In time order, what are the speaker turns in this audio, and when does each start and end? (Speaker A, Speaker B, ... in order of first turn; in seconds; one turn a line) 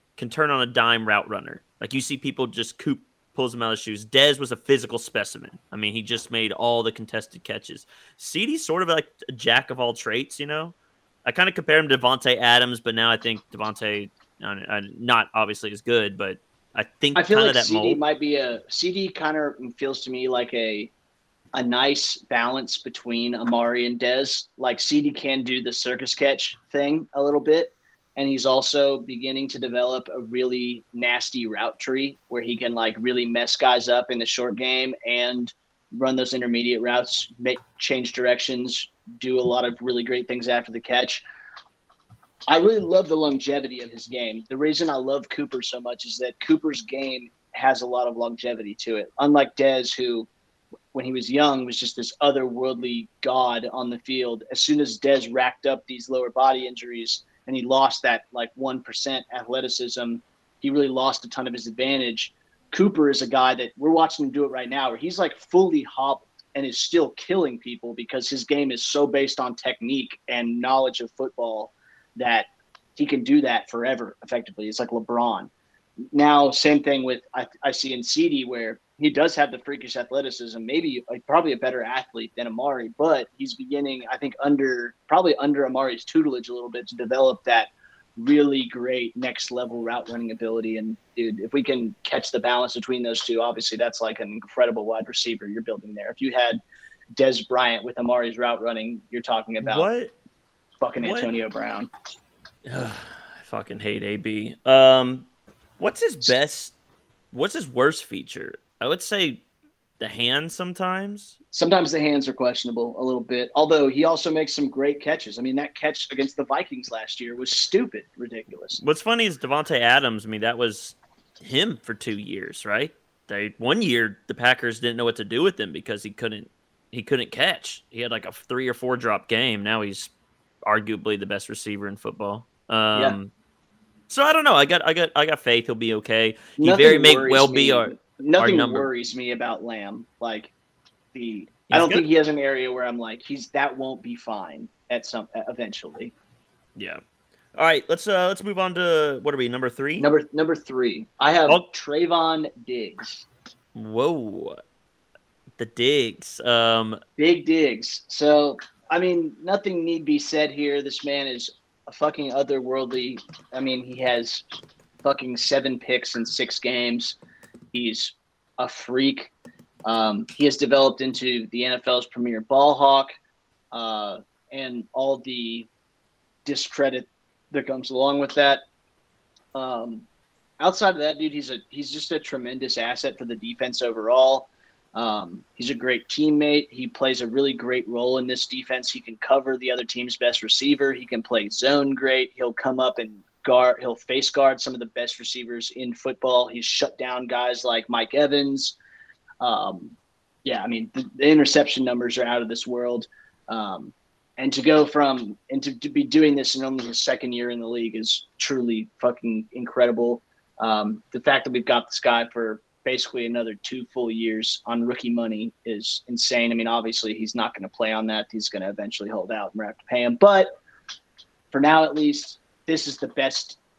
Speaker A: 0.2-18.0
Speaker B: 17.1-20.9
Speaker B: 21.5-41.2
Speaker B: 42.5-50.3
Speaker B: 50.9-75.5
Speaker B: 76.1-96.6
Speaker B: 97.2-99.9
Speaker A: 99.6-100.1
Speaker B: 100.8-101.9
Speaker A: 101.0-101.3
Speaker A: 102.7-105.3
Speaker A: 105.8-106.7
Speaker A: 107.3-109.4
Speaker A: 110.0-111.3
Speaker B: 111.5-118.8
Speaker A: 118.8-130.1
Speaker A: 130.6-133.3
Speaker A: 134.1-138.9
Speaker B: 136.6-140.5
Speaker B: 141.1-146.1
Speaker A: 141.7-142.1
Speaker A: 146.8-147.0
Speaker A: 147.6-150.1
Speaker B: 150.0-153.3
Speaker A: 153.8-154.6
Speaker A: 155.6-157.0
Speaker B: 157.2-164.4
Speaker B: 165.0-167.2
Speaker B: 167.7-169.3
Speaker B: 169.8-173.1
Speaker B: 173.7-175.7
Speaker B: 176.4-178.6
Speaker B: 179.6-180.1
Speaker B: 180.6-198.8
Speaker B: 199.4-220.5
Speaker B: 221.5-223.6